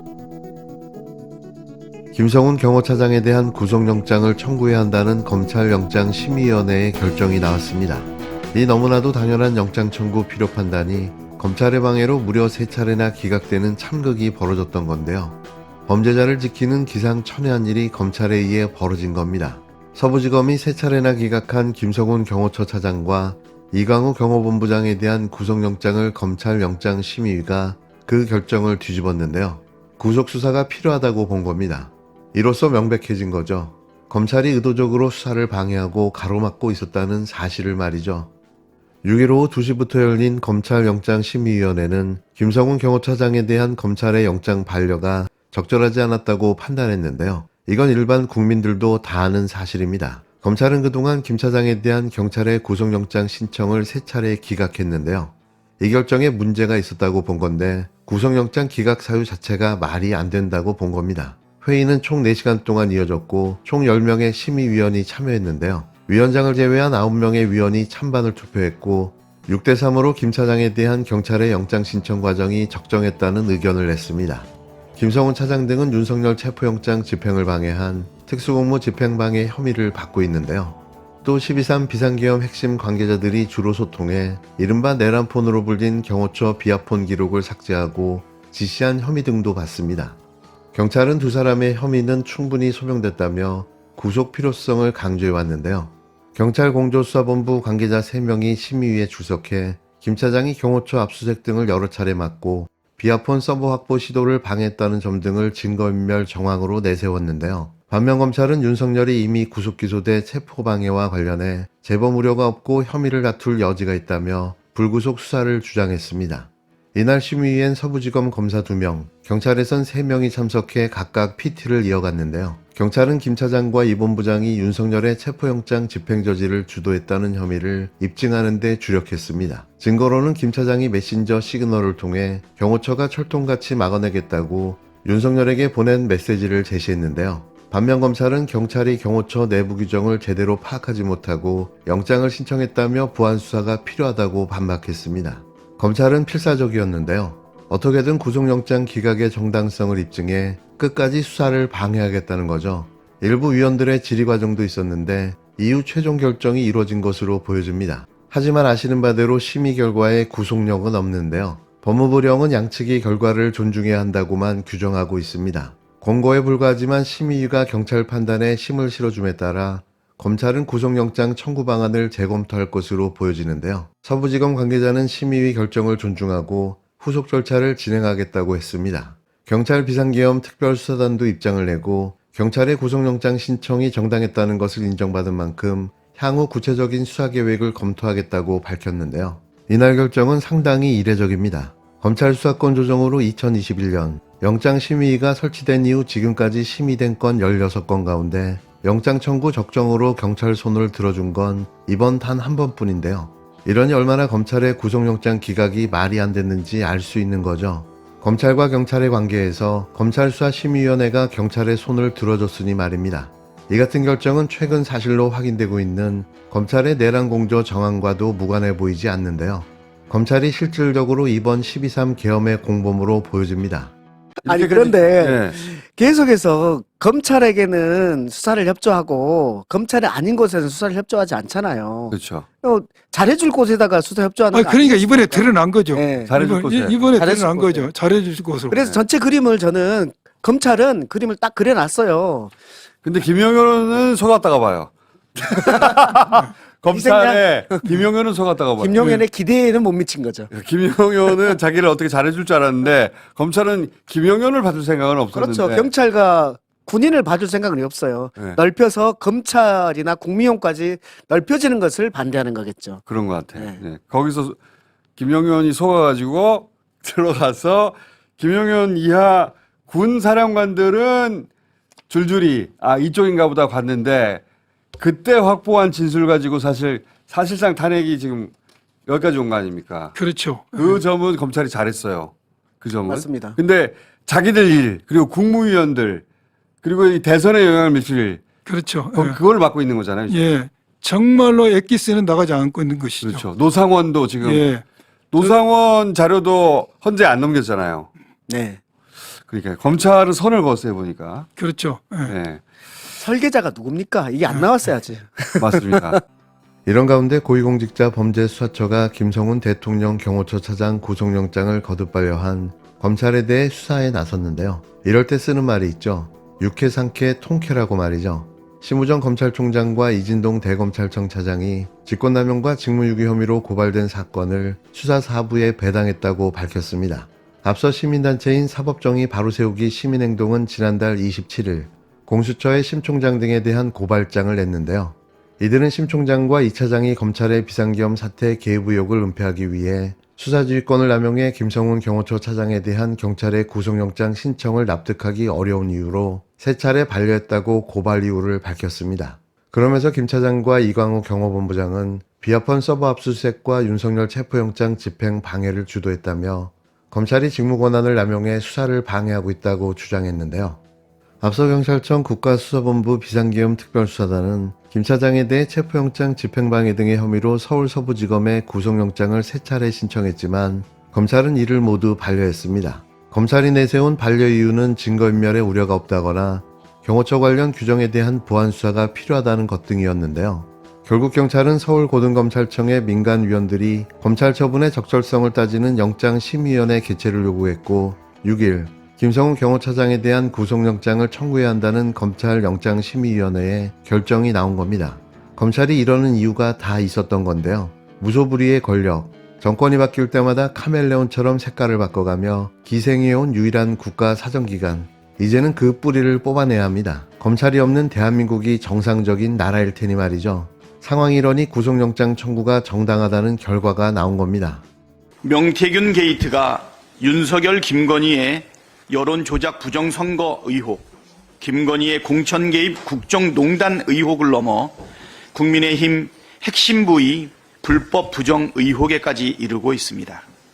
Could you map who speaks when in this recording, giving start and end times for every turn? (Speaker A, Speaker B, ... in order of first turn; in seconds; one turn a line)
Speaker A: 2.1-38.3
Speaker A: 39.0-90.2
Speaker A: 90.7-223.9
Speaker B: 224.4-225.6
Speaker C: 224.5-236.3
Speaker B: 232.1-232.4
Speaker D: 234.5-238.8
Speaker B: 236.3-237.0
Speaker C: 237.0-237.9
Speaker C: 238.7-242.5
Speaker B: 243.0-249.2
Speaker C: 246.9-247.7
Speaker C: 248.8-250.5
Speaker B: 250.5-255.9
Speaker C: 255.3-263.0
Speaker B: 263.1-264.6
Speaker C: 263.5-263.8
Speaker B: 265.1-271.5
Speaker B: 272.1-274.4
Speaker B: 275.0-278.5
Speaker B: 279.1-280.1
Speaker D: 280.1-281.0
Speaker B: 280.8-286.2
Speaker C: 283.1-283.6
Speaker B: 286.8-288.5
Speaker D: 288.6-289.4
Speaker B: 289.1-290.4
Speaker D: 290.3-293.4
Speaker B: 293.2-294.7
Speaker D: 294.4-294.8
Speaker B: 295.3-298.1
Speaker C: 298.5-298.8
Speaker B: 299.5-301.5
Speaker D: 301.6-302.3
Speaker B: 302.3-302.6
Speaker C: 303.2-306.2
Speaker B: 305.6-306.2
Speaker A: 306.9-360.8
Speaker A: 361.4-414.8
Speaker E: 415.4-421.0
Speaker E: 421.6-425.0
Speaker E: 425.5-430.4